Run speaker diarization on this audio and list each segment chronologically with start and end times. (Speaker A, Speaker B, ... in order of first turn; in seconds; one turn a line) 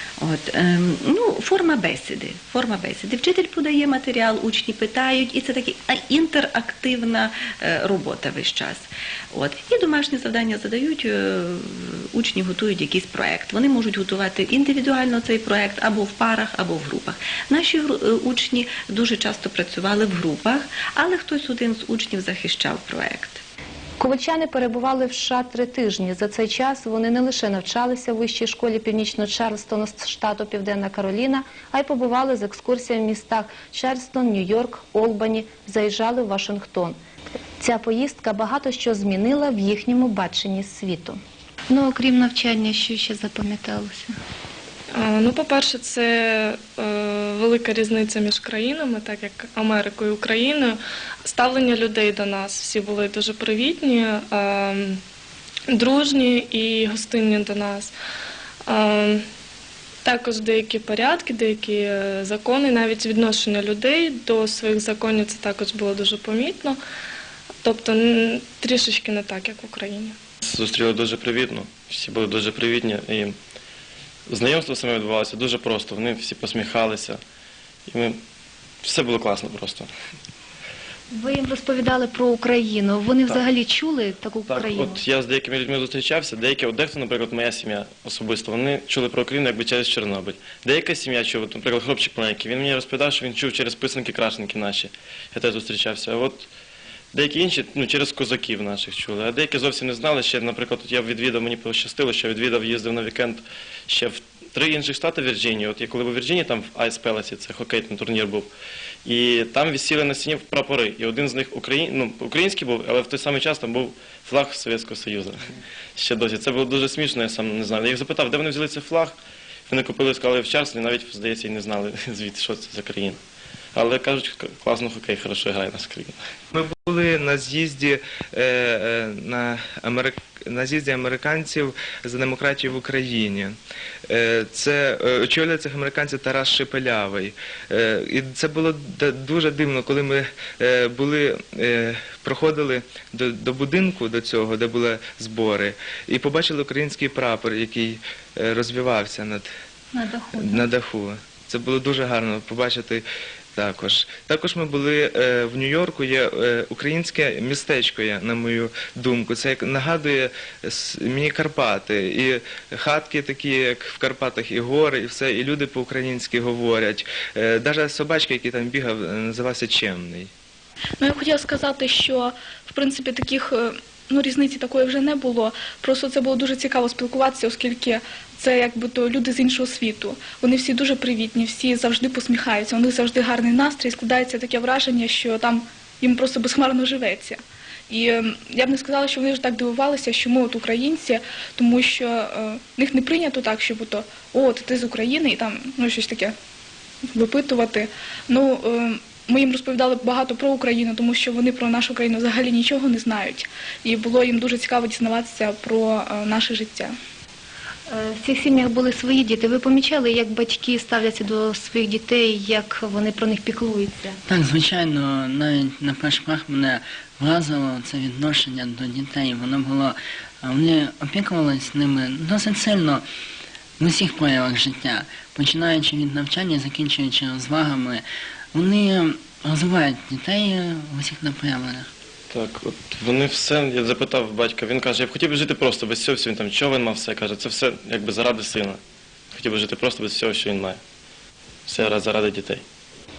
Speaker A: 0.2-8.8
Speaker A: 9.3-23.3
Speaker B: 24.0-37.0
Speaker B: 37.6-41.2
Speaker C: 41.7-44.1
Speaker D: 44.9-55.0
Speaker D: 55.7-57.9
Speaker D: 58.7-59.2
Speaker D: 60.0-66.8
Speaker D: 67.6-70.1
Speaker E: 70.4-73.3
Speaker E: 74.3-77.2
Speaker E: 77.9-78.2
Speaker E: 78.8-79.9
Speaker C: 81.2-85.0
Speaker E: 84.5-96.5
Speaker E: 97.1-108.5
Speaker E: 109.0-115.4
Speaker E: 116.0-119.1
Speaker E: 119.7-123.2
Speaker E: 123.7-126.2
Speaker F: 126.5-133.5
Speaker F: 134.1-149.5
Speaker C: 150.0-150.6
Speaker F: 150.4-153.0
Speaker F: 153.5-170.3
Speaker G: 171.0-196.3
Speaker G: 197.1-206.9
Speaker B: 208.0-209.6
Speaker C: 208.2-213.9
Speaker B: 211.1-211.7
Speaker H: 214.3-223.0
Speaker H: 223.8-231.9
Speaker E: 232.3-238.8
Speaker E: 239.3-240.8
Speaker E: 241.7-242.6